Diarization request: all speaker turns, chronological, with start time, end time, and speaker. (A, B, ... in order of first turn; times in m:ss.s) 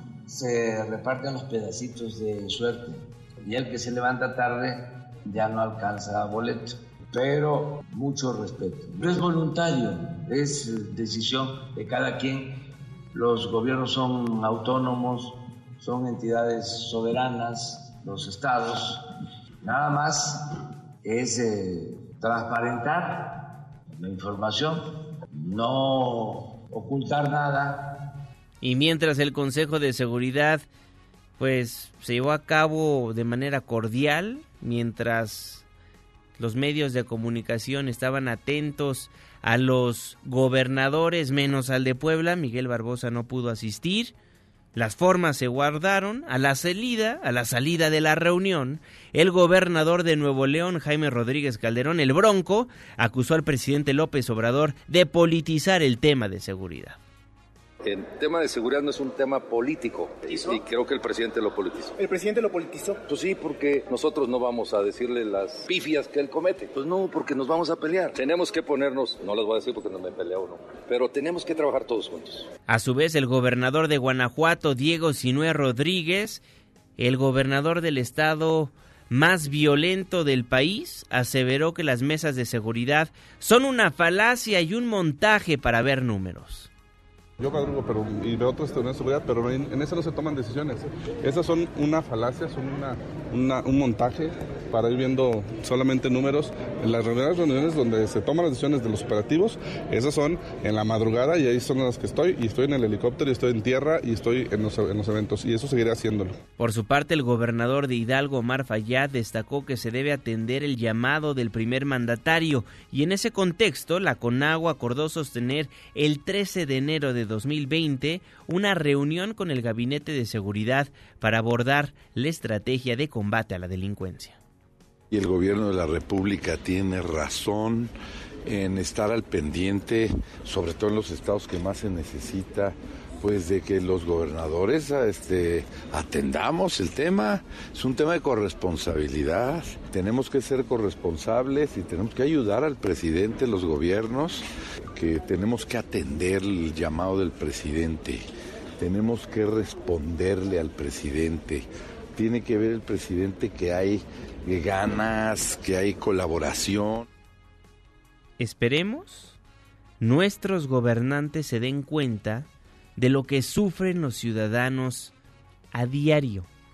0:00.2-0:19.0 A
0:19.6-0:20.5 A
0:21.0-0:28.0 A
0:28.6-0:30.6 B
0:31.4-0:35.6 B
0:36.4-0:44.1 B
0:44.7-0:57.0 B
0:57.8-1:02.0 C
1:03.1-1:12.5 C
1:12.7-1:16.4 B
1:17.0-1:26.7 B
1:27.4-1:46.4 D
1:46.6-2:04.4 B
2:05.1-2:07.9 E
2:08.4-2:28.2 E
2:28.8-2:37.0 E
2:38.4-2:39.4 B
2:40.0-2:45.1 B
2:45.7-2:46.5 B